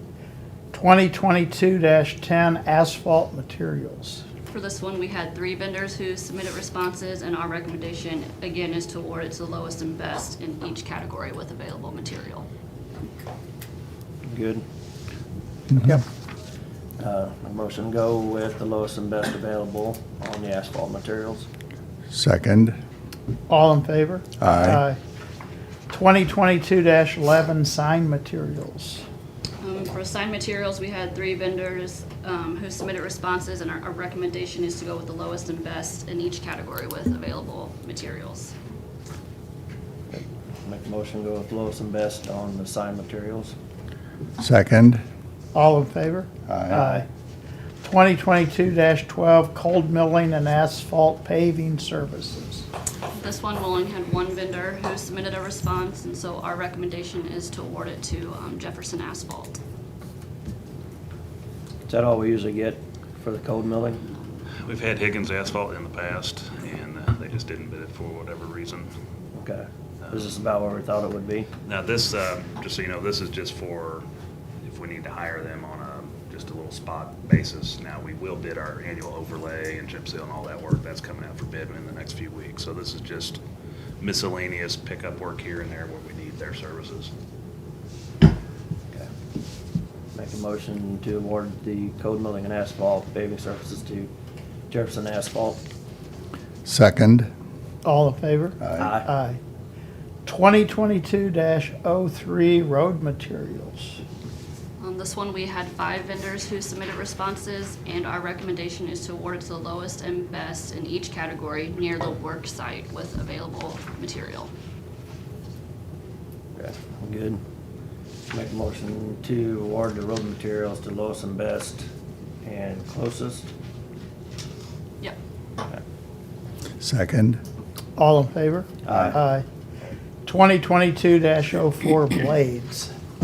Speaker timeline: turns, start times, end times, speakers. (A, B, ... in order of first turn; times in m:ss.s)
0:00.7-0:04.2 A
0:04.5-0:12.5 B
0:14.3-0:14.6 C
0:15.8-0:16.0 A
0:17.0-0:21.5 C
0:22.1-0:22.8 D
0:23.5-0:25.0 A
0:24.4-0:24.8 D
0:25.9-0:29.0 A
0:29.6-0:38.5 B
0:40.1-0:43.6 C
0:44.4-0:45.0 D
0:45.5-0:47.1 A
0:46.5-0:46.9 D
0:47.8-0:52.7 A
0:53.2-0:59.6 B
1:01.9-1:04.0 C
1:04.6-1:08.9 E
1:09.4-1:11.5 C
1:11.6-1:14.0 E
1:14.6-1:23.4 E
1:24.0-1:27.1 E
1:30.1-1:34.1 C
1:34.7-1:35.6 C
1:36.6-1:37.3 D
1:37.8-1:39.4 A
1:38.6-1:38.9 D
1:38.8-1:39.1 C
1:40.3-1:44.0 A
1:44.8-1:54.5 B
1:56.6-1:57.4 C
1:58.3-2:01.8 C
2:02.4-2:03.4 C
2:06.8-2:07.4 D
2:08.0-2:09.4 A
2:08.8-2:09.2 C
2:10.3-2:12.9 A